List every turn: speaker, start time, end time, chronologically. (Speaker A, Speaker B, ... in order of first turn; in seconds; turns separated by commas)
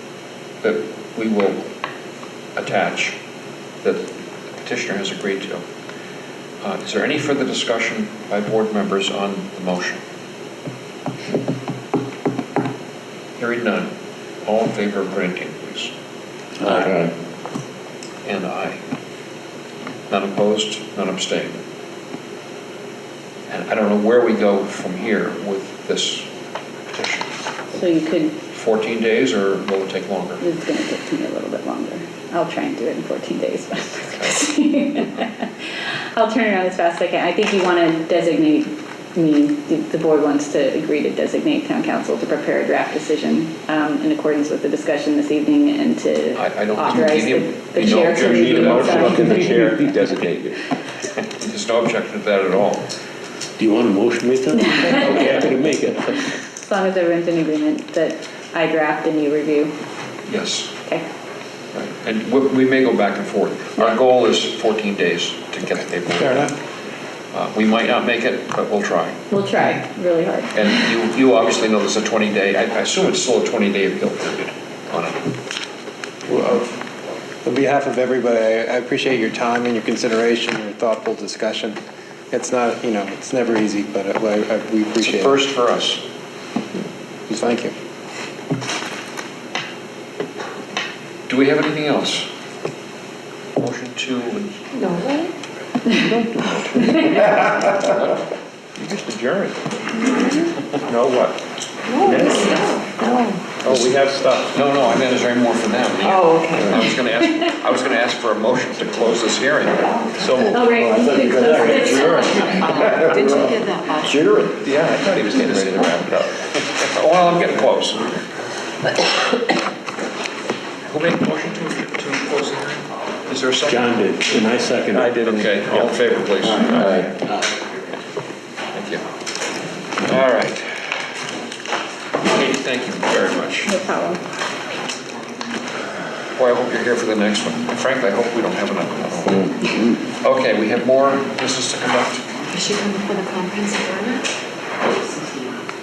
Speaker A: 0.6-1.7, Speaker A: 2.6-3.2, Speaker A: 3.8-5.6, Speaker A: 6.6-10.0, Speaker A: 13.4-13.9, Speaker A: 14.4-15.9, Speaker A: 18.2-18.8, Speaker A: 20.1-21.6, Speaker A: 23.5-26.3, Speaker A: 26.9-27.3, Speaker B: 27.7-28.4, Speaker A: 28.5-30.4, Speaker B: 30.4-35.5, Speaker B: 36.1-49.8, Speaker A: 46.4-49.2, Speaker C: 48.1-50.6, Speaker A: 51.4-52.9, Speaker D: 53.6-56.3, Speaker B: 54.8-55.4, Speaker B: 56.6-59.7, Speaker A: 60.3-60.7, Speaker A: 61.7-66.5, Speaker E: 66.2-66.5, Speaker A: 67.3-69.2, Speaker B: 69.3-70.6, Speaker A: 70.5-75.2, Speaker E: 76.3-76.7, Speaker E: 77.4-81.8, Speaker E: 82.3-85.4, Speaker A: 85.0-86.0, Speaker E: 87.3-87.7, Speaker A: 91.3-92.3, Speaker A: 93.6-94.6, Speaker F: 94.8-95.3, Speaker C: 95.9-98.0, Speaker A: 97.8-98.1, Speaker C: 98.8-99.6, Speaker C: 100.8-101.4, Speaker F: 101.9-103.5, Speaker C: 102.0-102.6, Speaker C: 103.6-104.6, Speaker A: 104.5-109.9, Speaker F: 106.0-106.8, Speaker C: 106.6-106.9, Speaker C: 110.2-116.8, Speaker B: 110.4-112.7, Speaker F: 111.6-114.2, Speaker A: 115.3-116.1, Speaker A: 116.8-118.1, Speaker A: 120.8-123.9, Speaker D: 123.7-125.2, Speaker C: 124.9-127.1, Speaker A: 125.2-126.7, Speaker D: 126.4-127.5, Speaker A: 128.7-129.1, Speaker A: 130.1-130.8, Speaker A: 132.2-133.7, Speaker B: 133.7-134.2, Speaker A: 136.4-139.5, Speaker A: 140.2-142.2, Speaker F: 142.5-144.2, Speaker F: 144.8-145.2